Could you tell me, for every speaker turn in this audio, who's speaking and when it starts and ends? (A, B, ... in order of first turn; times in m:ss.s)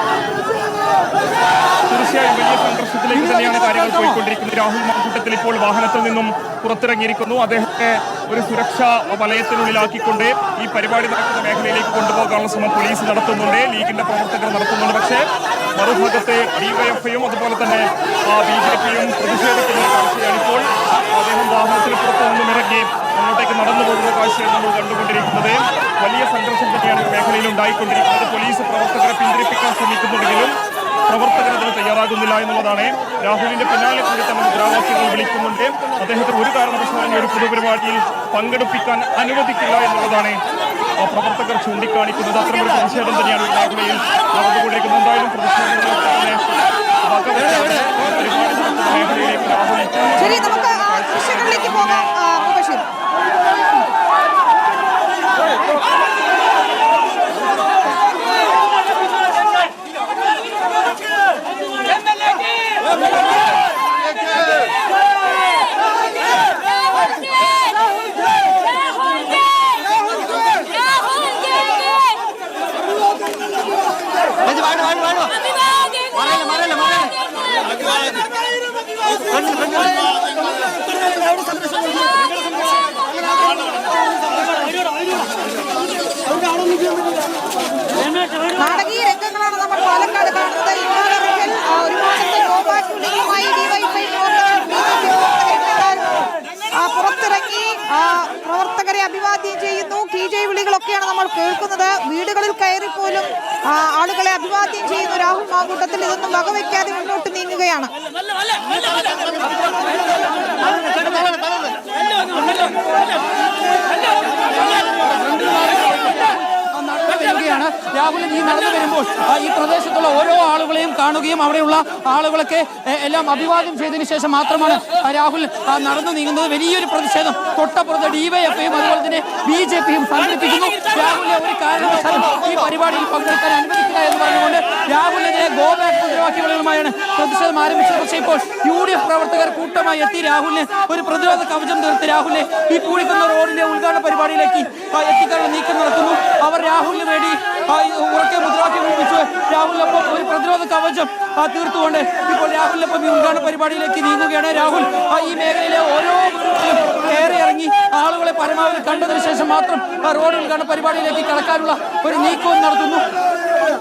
0:01.9-0:30.6 A
0:03.1-0:04.2 B
0:31.1-0:40.4 A
0:41.0-0:46.5 A
0:47.0-0:52.0 A
0:50.2-0:52.8 C
1:16.4-1:16.8 B
1:28.5-1:47.9 C
1:51.1-1:51.3 B
1:54.8-2:43.1 B